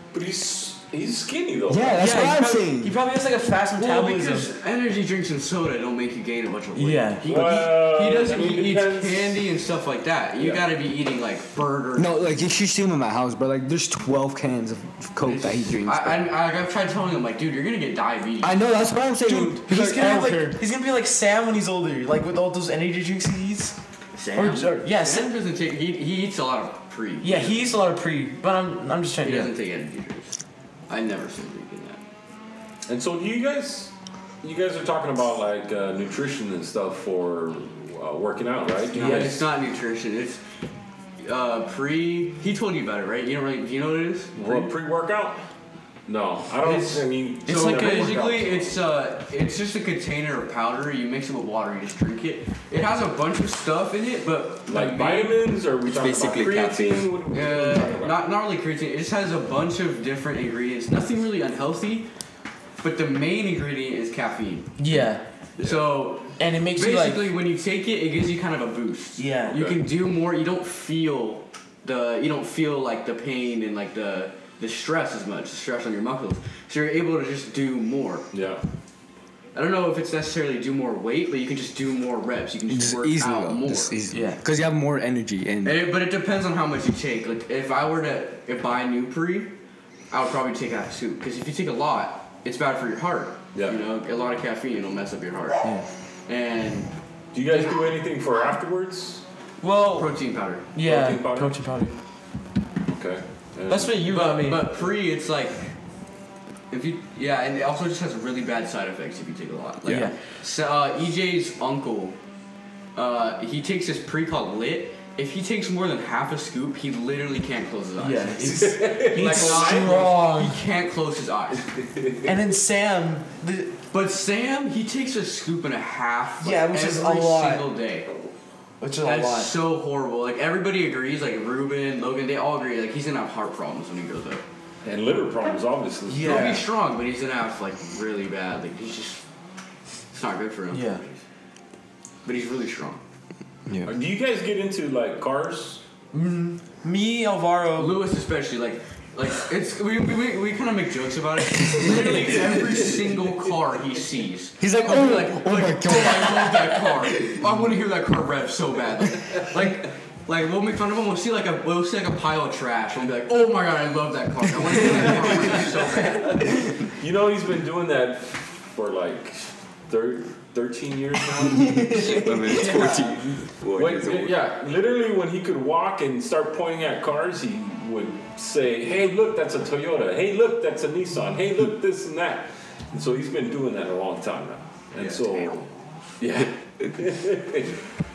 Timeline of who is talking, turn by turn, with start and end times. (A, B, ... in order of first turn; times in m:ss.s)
0:00.1-0:02.1 A
0:01.7-0:03.0 B
0:01.9-0:04.5 C
0:03.8-0:12.3 D
0:06.8-0:07.3 C
0:07.2-0:09.5 A
0:10.4-0:10.6 A
0:12.0-0:16.3 B
0:15.2-0:18.6 D
0:18.4-0:20.6 B
0:19.2-0:23.8 C
0:24.2-0:27.6 D
0:24.4-0:25.3 C
0:27.2-0:29.5 C
0:29.2-0:30.4 D
0:30.9-0:32.0 D
0:32.9-0:39.5 A
0:38.9-0:39.4 C
0:38.9-0:40.4 D
0:41.2-0:44.7 D
0:44.4-0:45.5 A
0:46.1-0:48.8 A
0:46.6-0:55.4 D
0:47.5-0:48.1 C
0:54.7-0:58.2 A
0:55.8-0:57.2 E
0:57.3-1:02.1 D
1:02.8-1:04.7 D
1:04.8-1:05.2 C
1:05.6-1:18.3 D
1:06.4-1:07.3 C
1:09.2-1:09.6 C
1:09.5-1:09.8 A
1:18.3-1:18.6 A
1:19.6-1:24.0 D
1:22.7-1:25.8 B
1:24.1-1:24.4 C
1:25.6-1:29.5 D
1:30.1-1:35.6 D
1:33.5-1:33.8 A
1:36.3-1:36.9 D
1:37.3-1:39.2 A
1:39.6-1:40.2 C
1:40.0-1:40.7 D
1:40.7-1:42.0 C
1:40.8-1:41.6 A
1:42.9-1:44.1 A
1:43.7-1:44.7 C
1:44.1-1:45.6 D
1:46.7-1:52.2 D
1:49.9-1:50.2 C
1:53.0-2:01.7 D
1:58.0-2:00.6 C
1:58.4-2:00.0 A
2:01.7-2:02.3 A
2:02.3-2:03.8 C
2:03.9-2:08.1 D
2:06.4-2:07.7 C
2:08.8-2:09.5 C
2:09.0-2:14.4 D
2:14.8-2:16.7 A
2:16.1-2:16.6 C
2:16.2-2:19.2 D
2:20.1-2:21.2 D
2:20.7-2:21.0 C
2:22.2-2:23.0 D
2:23.8-2:25.8 A
2:26.1-2:28.0 C
2:27.8-2:46.7 D
2:34.6-2:37.4 B
2:46.0-2:52.3 A
2:51.8-2:54.4 E
2:53.7-3:07.8 A
3:05.0-3:05.4 D